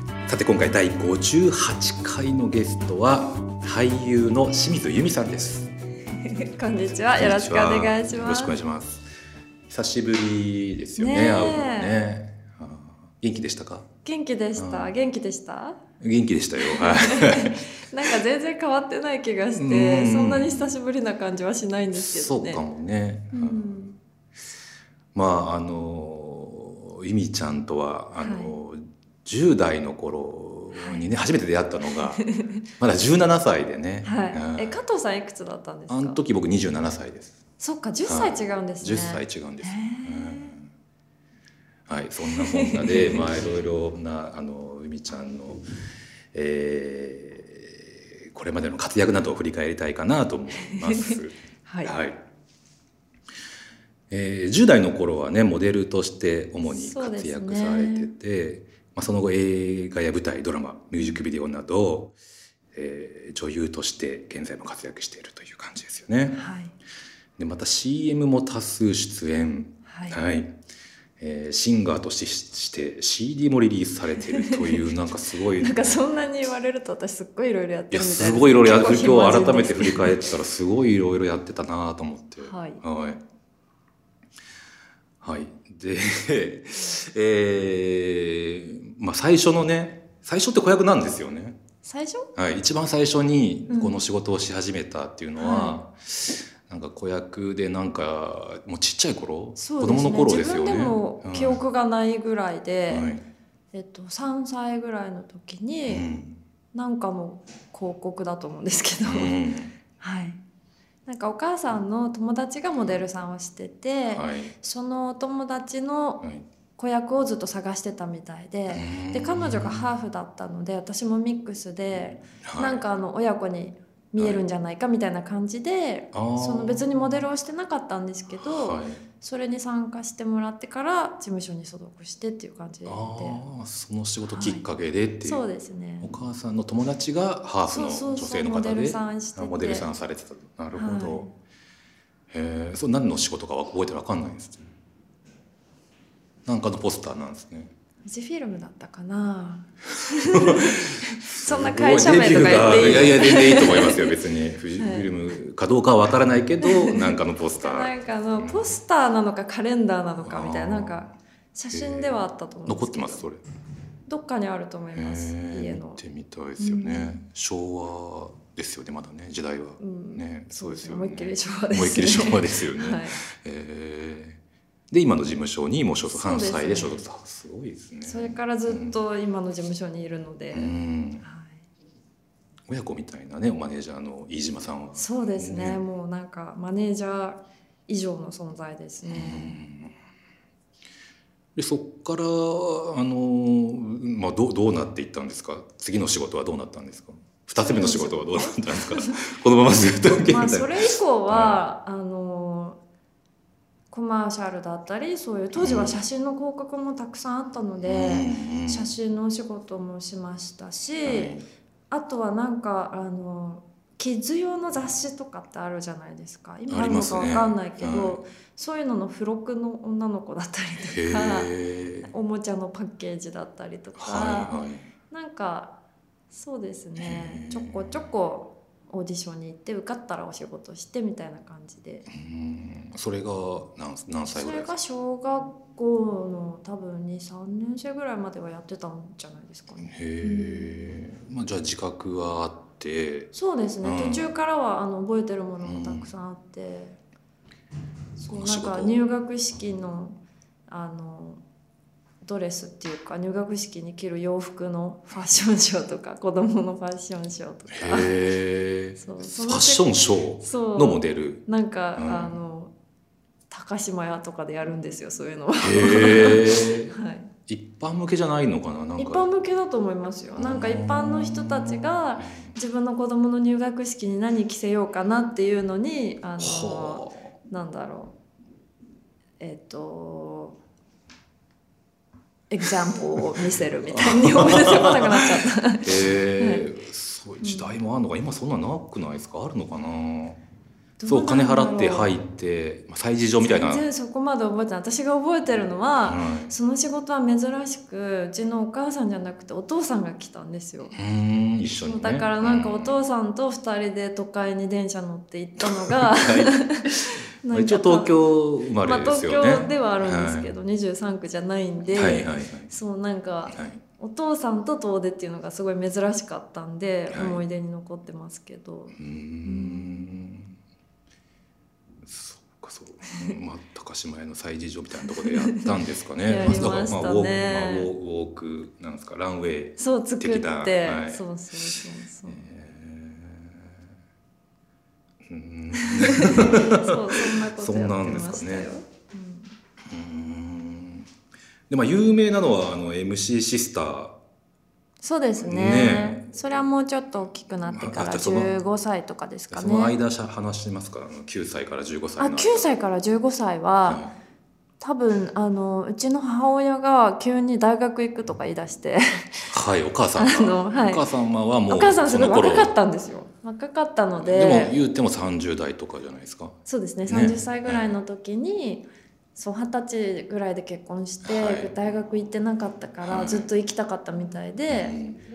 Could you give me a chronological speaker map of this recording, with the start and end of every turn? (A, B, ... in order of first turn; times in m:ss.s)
0:00.3-0:05.7 A
0:06.2-0:08.5 B
0:07.0-0:09.0 A
0:09.7-0:13.9 A
0:11.0-0:12.0 B
0:14.0-0:15.8 B
0:14.6-0:14.9 A
0:16.0-0:17.6 A
0:16.6-0:22.6 B
0:19.5-0:20.7 A
0:21.9-0:23.8 A
0:23.3-0:24.0 B
0:25.1-0:32.2 A
0:28.2-0:28.6 B
0:30.7-0:31.1 B
0:31.9-0:32.6 B
0:32.8-0:34.8 A
0:34.0-0:36.2 B
0:35.9-0:37.4 A
0:37.6-0:40.5 B
0:38.0-0:40.7 A
0:41.9-0:45.6 A
0:42.3-0:43.2 B
0:46.3-0:52.2 A
0:50.7-0:51.9 B
0:54.1-1:02.2 A
0:56.6-0:58.1 B
1:01.0-1:01.2 B
1:02.7-1:06.5 A
1:06.3-1:06.7 B
1:07.4-1:10.6 A
1:09.8-1:10.2 B
1:11.2-1:16.0 A
1:14.2-1:14.9 B
1:15.6-1:20.3 B
1:17.9-1:23.2 A
1:22.4-1:22.8 B
1:25.2-1:31.6 A
1:26.8-1:27.0 B
1:31.8-1:32.3 B
1:32.4-1:41.6 A
1:33.7-1:34.0 B
1:35.4-1:35.8 B
1:39.6-1:43.1 B
1:42.9-1:43.2 A
1:43.7-1:46.1 B
1:45.9-1:46.4 A
1:46.7-1:49.4 B
1:49.0-1:49.7 A
1:50.0-1:50.4 B
1:51.0-1:56.2 B
1:54.1-1:54.5 A
1:56.8-2:13.4 B
1:58.7-1:59.8 A
2:02.4-2:02.8 A
2:04.2-2:04.4 A
2:06.1-2:07.1 A
2:08.4-2:09.0 A
2:12.8-2:15.4 A
2:14.2-2:14.6 B
2:15.2-2:16.1 B
2:16.0-2:21.3 A
2:17.7-2:19.9 B
2:20.7-2:21.3 B
2:22.3-2:24.7 A
2:26.4-2:27.7 A
2:28.0-2:34.2 B
2:30.0-2:38.8 A
2:34.8-2:35.2 B
2:36.6-2:43.3 B
2:40.2-2:41.0 A
2:41.7-2:43.4 A
2:44.1-2:46.0 B
2:44.9-2:54.4 A
2:46.6-2:47.2 B
2:49.8-2:53.2 B
2:54.9-2:59.0 A
2:56.1-2:57.1 B
2:58.0-3:01.7 B
3:00.5-3:01.2 A
3:02.7-3:05.8 A
3:05.0-3:09.6 B
3:09.0-3:09.9 A
3:11.6-3:21.6 A
3:17.6-3:19.3 B
3:20.1-3:22.8 B
3:23.9-3:31.4 B
3:25.6-3:26.0 A
3:27.8-3:28.9 A
3:31.0-3:31.4 A
3:31.9-3:44.6 B
3:36.7-3:38.2 A
3:40.8-3:42.1 A
3:44.0-3:44.8 A
3:45.1-3:45.7 B
3:46.3-3:52.0 B
3:47.0-3:48.0 A
3:52.1-3:54.8 A
3:54.3-4:00.9 B
3:59.8-4:04.3 A
4:03.3-4:07.0 B
4:05.6-4:06.1 A
4:08.2-4:11.4 B
4:08.3-4:09.0 A
4:12.2-4:18.2 B
4:17.7-4:21.4 A
4:19.0-4:22.7 B
4:22.0-4:22.4 A
4:23.5-4:27.3 B
4:25.6-4:26.9 A
4:27.5-4:29.2 A
4:29.0-4:38.2 B
4:30.4-4:32.5 A
4:36.4-4:37.3 A
4:39.4-4:40.6 B
4:42.5-4:46.7 B
4:43.8-4:45.2 A
4:45.8-4:50.4 A
4:47.4-4:47.8 B
4:51.0-4:52.2 B
4:51.0-4:53.8 A
4:53.4-5:01.0 B
4:56.0-4:56.5 A
5:00.9-5:03.0 A
5:01.8-5:20.1 B
5:05.6-5:06.7 A
5:07.5-5:10.5 A
5:11.9-5:12.7 A
5:13.5-5:13.8 A
5:17.1-5:17.4 A
5:18.9-5:20.5 A
5:22.0-5:33.8 A
5:23.1-5:23.4 B
5:25.0-5:25.7 B
5:26.2-5:27.9 B
5:29.8-5:32.5 B
5:35.2-5:38.7 A
5:35.7-5:39.6 B
5:39.9-5:41.1 A
5:41.7-5:44.2 A
5:45.0-5:49.9 B
5:45.4-5:46.6 A
5:47.7-5:48.5 A
5:49.5-5:52.7 A
5:52.2-5:54.0 B
5:53.9-5:54.1 A
5:54.8-5:59.6 B
5:59.5-6:02.7 A
6:00.2-6:01.1 B
6:01.7-6:04.8 B
6:04.2-6:08.0 A
6:06.6-6:15.0 B
6:11.2-6:11.7 A
6:13.0-6:13.5 A
6:14.7-6:15.2 A